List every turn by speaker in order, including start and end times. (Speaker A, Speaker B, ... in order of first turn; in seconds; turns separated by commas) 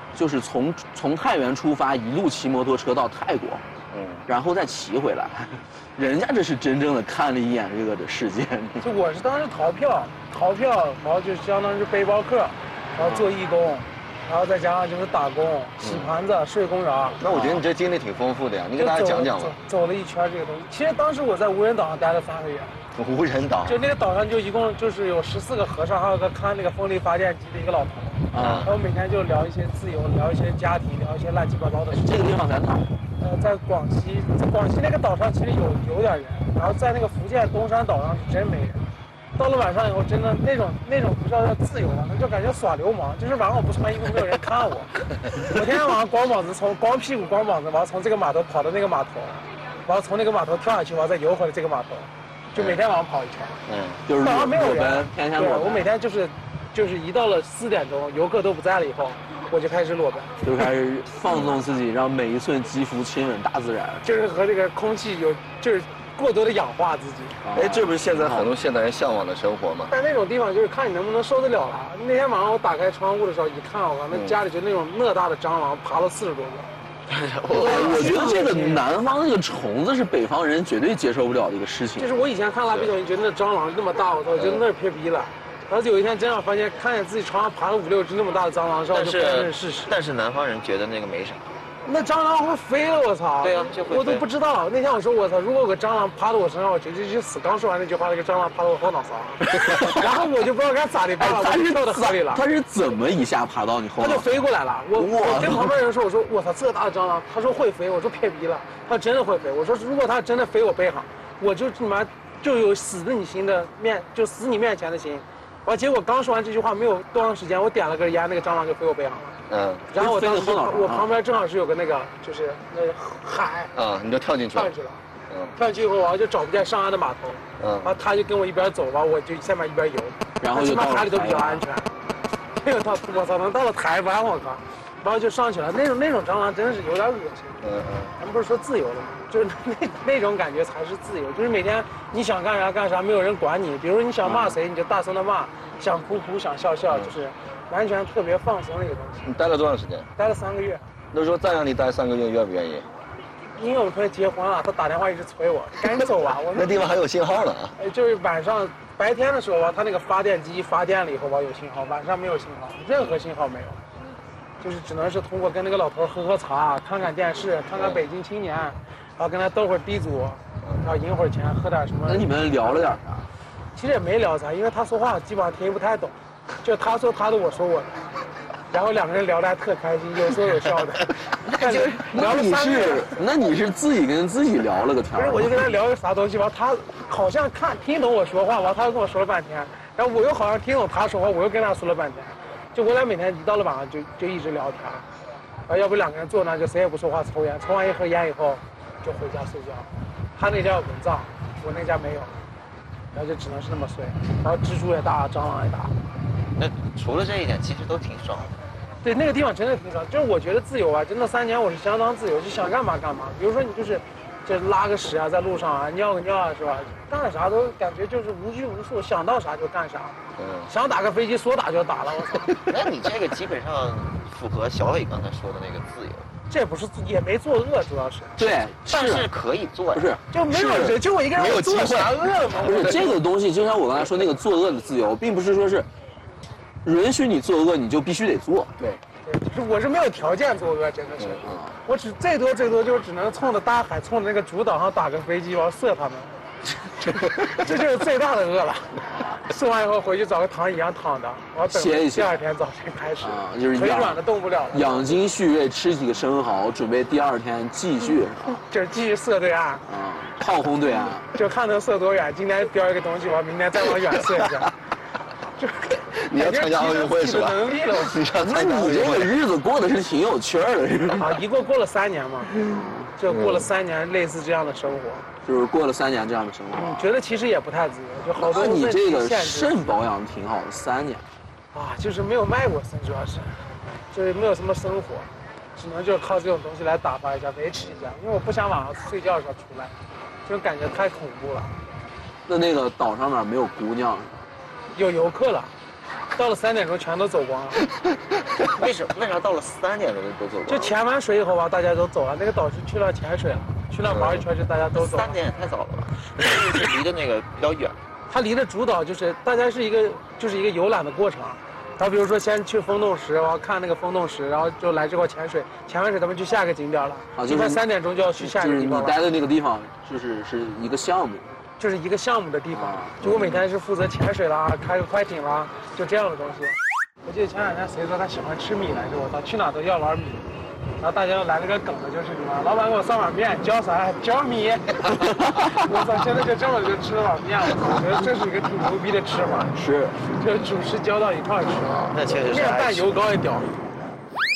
Speaker A: 0.1-3.6, Speaker B: 3.9-4.3, Speaker A: 4.3-8.8, Speaker C: 8.8-17.2, Speaker A: 13.0-13.3, Speaker B: 15.8-16.1, Speaker B: 17.2-19.6, Speaker A: 17.3-17.6, Speaker C: 18.8-22.7, Speaker B: 22.9-23.8, Speaker C: 23.7-32.3, Speaker A: 28.3-28.7, Speaker B: 28.4-28.7, Speaker A: 31.9-32.9, Speaker C: 33.2-38.8, Speaker C: 39.4-53.5, Speaker B: 53.7-54.0, Speaker A: 54.1-55.9, Speaker C: 54.1-60.3, Speaker A: 60.4-64.0, Speaker C: 64.0-67.4, Speaker A: 67.5-68.5, Speaker B: 67.5-69.9, Speaker C: 69.9-76.7, Speaker B: 74.1-74.4, Speaker D: 77.1-77.8, Speaker B: 77.5-77.8, Speaker C: 77.5-78.8, Speaker A: 77.5-82.1, Speaker C: 82.0-89.9, Speaker D: 88.9-91.5, Speaker C: 91.8-102.4, Speaker D: 93.4-94.3, Speaker A: 99.6-100.0, Speaker A: 101.2-104.3, Speaker C: 104.0-119.4, Speaker A: 105.0-105.7, Speaker B: 119.5-119.9, Speaker C: 119.9-123.7, Speaker A: 119.9-121.1, Speaker B: 123.8-124.7, Speaker C: 124.5-125.0, Speaker B: 125.3-125.5, Speaker C: 125.5-131.9, Speaker B: 127.6-128.0, Speaker A: 130.4-131.7, Speaker C: 132.6-137.6, Speaker B: 137.6-138.1, Speaker C: 138.2-149.2, Speaker A: 144.2-144.6, Speaker B: 149.2-150.1, Speaker C: 150.2-150.9, Speaker B: 151.1-152.9, Speaker C: 153.6-156.9, Speaker B: 156.5-157.7, Speaker C: 157.8-163.8, Speaker C: 164.6-172.7, Speaker B: 167.8-168.0, Speaker A: 172.1-173.3, Speaker C: 173.8-177.9, Speaker C: 178.7-183.2, Speaker D: 181.5-182.1, Speaker A: 182.0-185.5, Speaker C: 185.1-195.0, Speaker C: 195.7-202.3, Speaker C: 203.1-205.9, Speaker D: 206.6-208.6, Speaker C: 209.0-220.2, Speaker B: 220.4-220.7, Speaker C: 220.7-222.6, Speaker D: 222.7-226.3, Speaker C: 226.5-228.4, Speaker A: 228.4-229.3, Speaker D: 228.9-230.2, Speaker A: 229.9-231.0, Speaker C: 230.3-233.2, Speaker B: 231.3-232.3, Speaker A: 232.6-235.9, Speaker A: 236.8-238.7, Speaker C: 239.2-246.3, Speaker A: 241.4-241.8, Speaker C: 247.1-255.2, Speaker A: 251.7-252.4, Speaker A: 253.2-258.6, Speaker C: 258.7-259.8, Speaker A: 259.9-261.3, Speaker C: 261.3-264.7, Speaker C: 265.6-268.3, Speaker B: 266.3-269.4, Speaker A: 268.4-271.4, Speaker C: 271.2-272.6, Speaker A: 272.6-273.1, Speaker C: 273.2-275.3, Speaker B: 273.3-273.7, Speaker A: 275.4-277.1, Speaker C: 276.7-280.0, Speaker A: 278.4-281.2, Speaker C: 281.7-283.5, Speaker C: 284.1-289.9, Speaker C: 290.4-291.8, Speaker A: 292.5-294.3, Speaker C: 294.9-295.7, Speaker C: 296.4-297.8, Speaker D: 298.7-300.9, Speaker C: 300.7-305.4, Speaker D: 304.9-308.0, Speaker C: 308.3-319.2, Speaker A: 317.4-317.8, Speaker A: 318.4-321.5, Speaker C: 321.8-330.5, Speaker A: 322.7-323.6, Speaker C: 331.0-339.7, Speaker A: 335.2-335.7, Speaker A: 339.7-340.2, Speaker C: 340.3-343.8, Speaker D: 342.1-343.1